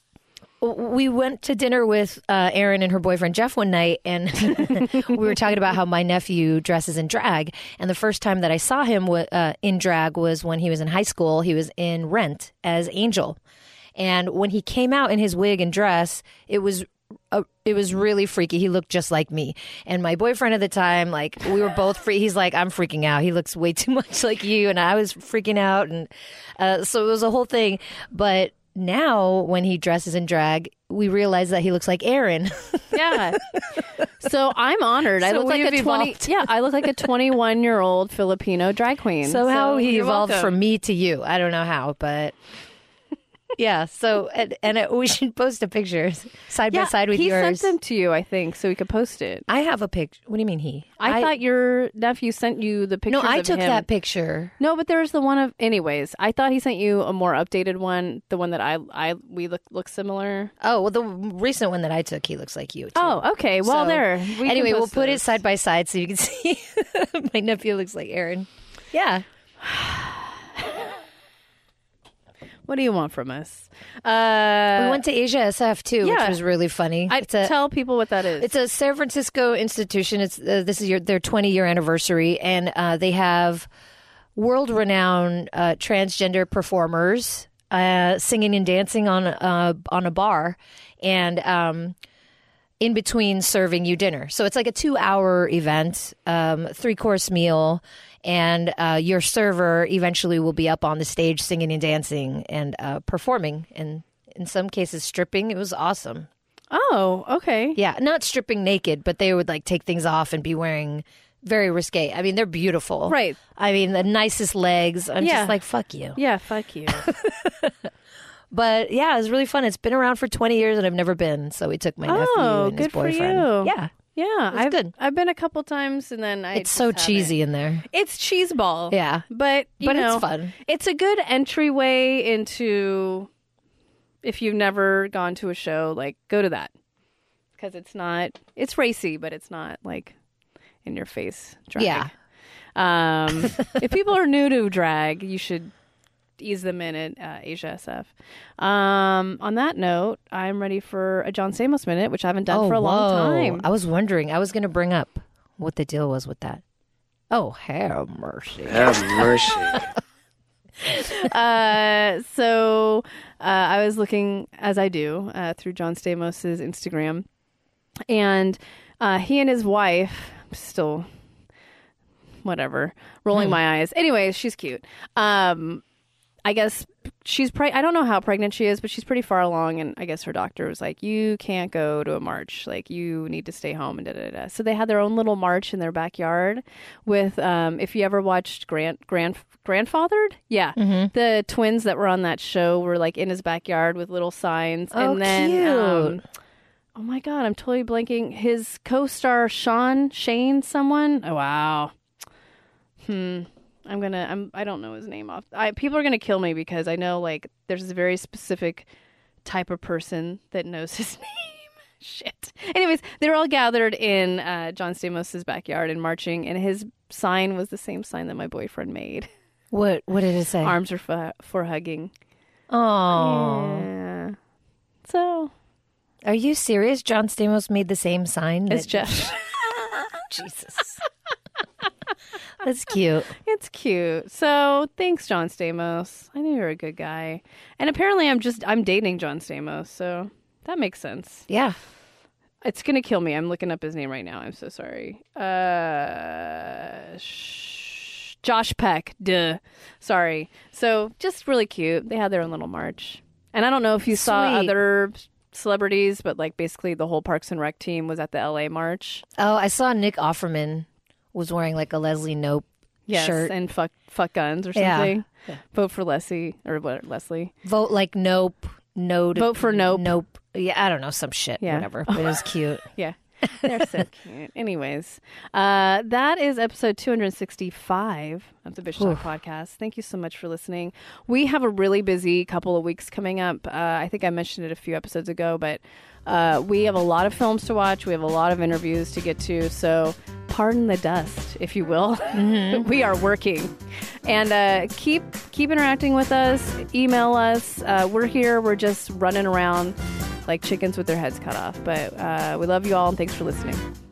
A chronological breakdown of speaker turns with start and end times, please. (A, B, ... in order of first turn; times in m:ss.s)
0:00.6-0:13.4 A
0:04.8-0:05.2 B
0:14.0-0:33.8 A
0:32.9-0:33.4 B
0:34.2-0:40.5 B
0:35.2-0:36.5 A
0:39.2-0:42.4 A
0:43.6-0:47.7 A
0:46.7-0:49.5 B
0:49.5-0:51.3 A
0:51.0-0:53.9 B
0:53.1-0:54.5 A
0:54.6-1:00.5 B
1:00.6-1:09.2 A
1:03.0-1:05.4 B
1:09.6-1:10.9 B
1:12.7-1:15.0 B
1:14.8-1:17.5 A
1:16.0-1:16.4 B
1:17.1-1:18.5 B
1:18.4-1:23.7 A
1:24.4-1:32.0 A
1:32.8-1:46.3 A
1:46.7-1:47.8 B
1:47.8-1:56.2 A
1:53.1-1:53.4 B
1:55.2-1:55.6 B
1:56.1-1:57.1 B
1:56.9-1:57.8 A
1:58.5-2:03.9 A
2:02.0-2:07.4 B
2:04.5-2:04.9 A
2:06.5-2:07.8 A
2:07.9-2:13.3 B
2:08.9-2:09.2 A
2:09.8-2:10.5 A
2:14.2-2:16.7 B
2:17.6-2:20.2 B
2:20.8-2:22.1 B
2:21.8-2:22.1 A
2:22.8-2:25.7 B
2:26.4-2:33.7 B
2:32.5-2:36.6 A
2:37.3-2:39.9 A
2:40.9-2:47.2 B
2:48.1-2:51.1 B
2:52.4-2:55.8 B
2:56.4-3:16.2 B
3:10.8-3:11.1 A
3:14.9-3:16.2 A
3:17.0-3:21.9 B
3:23.0-3:28.9 B
3:29.4-3:39.3 B
3:39.7-3:40.8 A
3:40.6-3:42.1 B
3:42.7-3:43.9 A
3:43.1-3:44.4 B
3:45.0-3:45.5 B
3:46.2-3:49.3 A
3:48.7-3:49.5 B
3:50.3-3:51.0 A
3:52.6-3:53.3 A
3:53.4-4:01.5 B
4:01.5-4:01.8 A
4:02.6-4:19.2 B
4:14.1-4:14.8 A
4:19.4-4:23.5 A
4:23.1-4:27.5 B
4:24.8-4:25.1 A
4:27.6-4:32.9 A
4:29.4-4:30.2 B
4:31.6-4:53.7 B
4:33.6-4:33.9 A
4:39.0-4:39.2 A
4:52.3-4:52.9 A
4:54.2-5:00.0 B
5:00.5-5:03.8 B